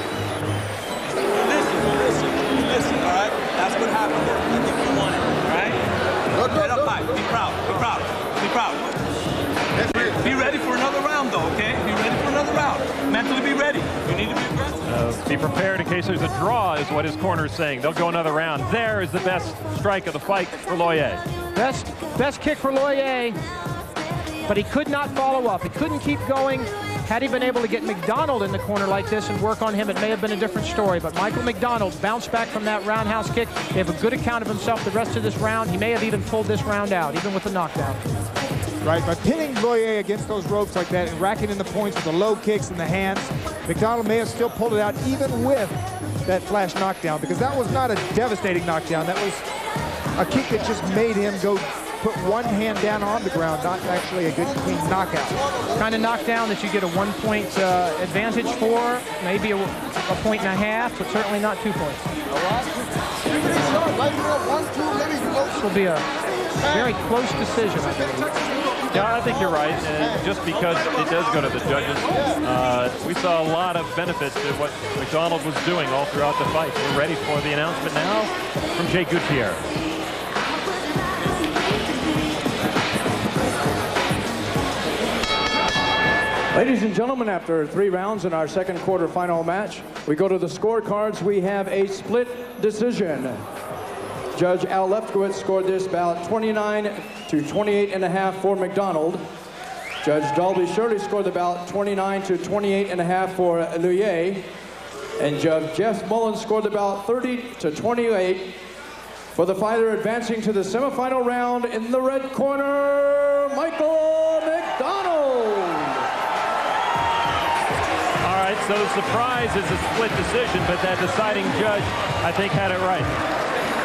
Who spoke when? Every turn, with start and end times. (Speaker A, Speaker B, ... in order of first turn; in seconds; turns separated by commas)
Speaker A: 1.5-5.8, Speaker A: 6.5-8.9, Speaker A: 9.9-14.7, Speaker B: 14.8-21.2, Speaker C: 21.5-23.4, Speaker C: 24.4-38.0, Speaker D: 38.8-49.4, Speaker D: 50.1-55.4, Speaker C: 55.7-62.1, Speaker C: 65.5-66.1, Speaker C: 66.6-68.4, Speaker B: 68.9-79.6, Speaker E: 86.5-93.4, Speaker E: 94.3-99.2, Speaker E: 100.0-104.5, Speaker E: 105.2-108.6, Speaker E: 109.3-116.0, Speaker B: 118.2-123.1